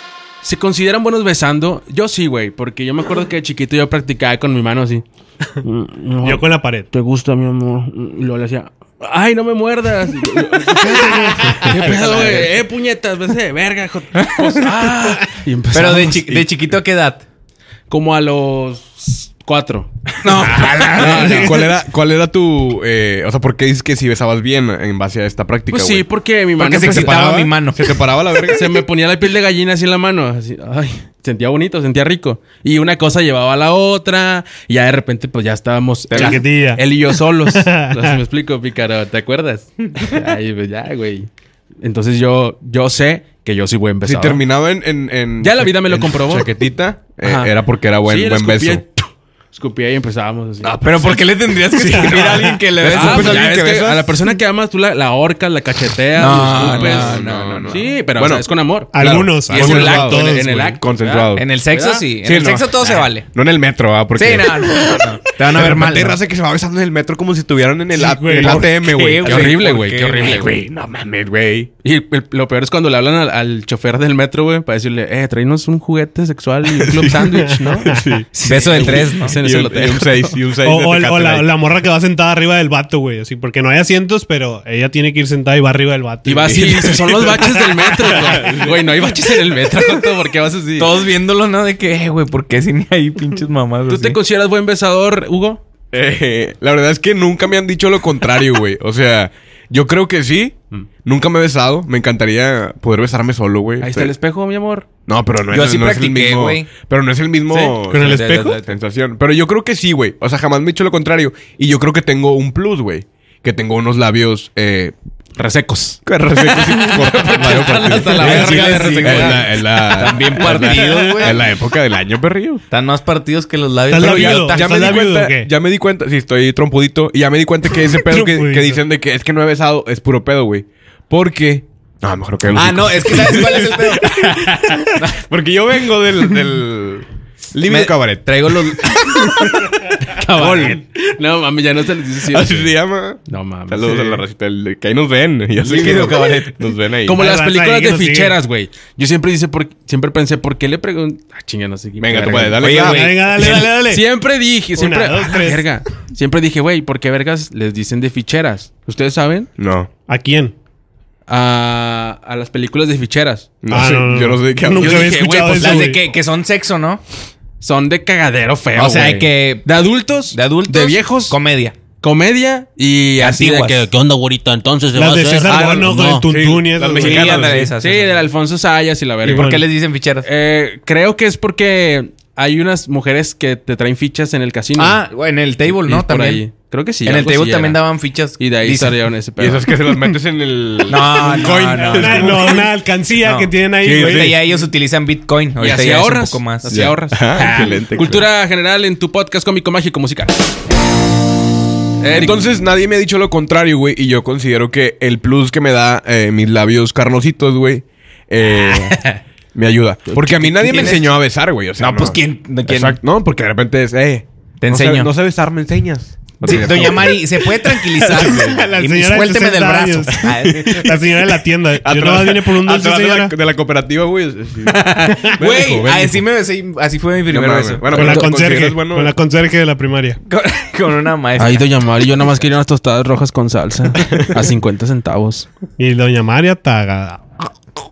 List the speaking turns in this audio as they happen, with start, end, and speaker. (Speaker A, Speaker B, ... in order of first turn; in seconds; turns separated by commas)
Speaker A: 0.4-5.0, Speaker A: 5.6-16.5, Speaker B: 6.2-6.9, Speaker B: 10.9-11.9, Speaker C: 11.4-12.5, Speaker C: 14.2-14.8, Speaker C: 15.7-17.2, Speaker A: 17.9-21.6, Speaker C: 20.2-21.6, Speaker D: 20.9-26.1, Speaker A: 25.7-27.3, Speaker C: 26.6-27.9, Speaker D: 26.8-28.8, Speaker A: 28.5-41.3, Speaker C: 36.1-36.4, Speaker B: 36.1-36.8, Speaker B: 37.4-38.1, Speaker A: 41.8-44.4, Speaker D: 44.0-48.8, Speaker A: 45.4-46.5, Speaker A: 47.2-47.5, Speaker A: 48.0-51.2, Speaker C: 50.6-53.4, Speaker D: 51.7-54.1, Speaker B: 51.9-52.6, Speaker A: 52.9-62.0, Speaker C: 56.1-57.8, Speaker D: 56.5-60.2, Speaker B: 58.9-60.8, Speaker C: 59.5-60.3, Speaker D: 60.8-61.4, Speaker C: 61.3-63.3, Speaker D: 62.2-69.6, Speaker C: 64.2-66.2, Speaker B: 67.9-68.7, Speaker C: 68.4-70.5, Speaker A: 69.2-70.5, Speaker D: 70.1-71.7, Speaker A: 71.8-80.4, Speaker D: 76.8-81.5, Speaker B: 77.5-78.0, Speaker C: 78.4-79.4, Speaker B: 80.6-88.4, Speaker A: 86.2-91.0, Speaker D: 88.0-88.8, Speaker C: 90.8-94.2, Speaker A: 93.9-95.6, Speaker D: 95.9-104.1, Speaker A: 103.8-104.9, Speaker D: 105.1-114.9, Speaker C: 105.5-106.7, Speaker C: 107.5-108.7, Speaker B: 107.6-108.6, Speaker A: 115.3-119.5, Speaker D: 116.0-122.6, Speaker C: 118.2-121.4, Speaker B: 120.8-121.3, Speaker C: 122.7-124.7, Speaker B: 123.9-125.5, Speaker D: 124.0-139.8, Speaker B: 127.9-128.8, Speaker C: 132.5-135.2, Speaker C: 137.7-139.7, Speaker A: 140.1-142.7, Speaker C: 140.3-140.8, Speaker D: 142.3-147.2, Speaker A: 143.3-144.2, Speaker C: 145.6-146.5, Speaker A: 147.1-159.5, Speaker B: 147.1-148.3, Speaker D: 152.0-153.1, Speaker C: 152.6-153.4, Speaker B: 152.7-154.0, Speaker B: 154.7-155.7, Speaker D: 159.6-159.9, Speaker B: 160.1-160.5, Speaker A: 161.3-163.5, Speaker D: 163.6-165.3, Speaker B: 163.7-166.0, Speaker A: 164.7-166.0, Speaker C: 165.6-167.0, Speaker A: 167.6-171.4, Speaker C: 168.7-169.7, Speaker C: 170.3-171.8, Speaker A: 172.0-176.2, Speaker C: 173.2-173.9, Speaker B: 174.9-177.7, Speaker D: 175.4-177.7, Speaker C: 176.9-178.2, Speaker A: 177.8-179.6, Speaker C: 179.2-180.3, Speaker B: 179.2-179.6, Speaker A: 180.2-185.0, Speaker C: 184.8-186.4, Speaker A: 185.7-187.8, Speaker C: 187.0-188.9, Speaker A: 188.4-189.7, Speaker D: 189.4-192.7, Speaker C: 190.9-192.6, Speaker B: 191.9-194.4, Speaker C: 193.2-196.9, Speaker D: 193.8-194.4, Speaker A: 195.6-200.4, Speaker D: 196.7-198.2, Speaker A: 202.0-202.6, Speaker D: 202.1-209.0, Speaker A: 208.7-209.2, Speaker D: 209.5-218.7, Speaker A: 210.1-211.0, Speaker C: 210.6-211.1, Speaker C: 211.8-213.0, Speaker C: 214.6-215.1, Speaker C: 216.4-220.9, Speaker B: 218.2-223.3, Speaker D: 220.2-220.9, Speaker D: 221.8-226.2, Speaker C: 224.6-227.9, Speaker D: 227.3-229.1, Speaker B: 227.9-230.2, Speaker A: 227.9-228.3, Speaker C: 230.3-231.7, Speaker A: 231.4-235.5, Speaker D: 234.0-234.3, Speaker B: 235.8-237.5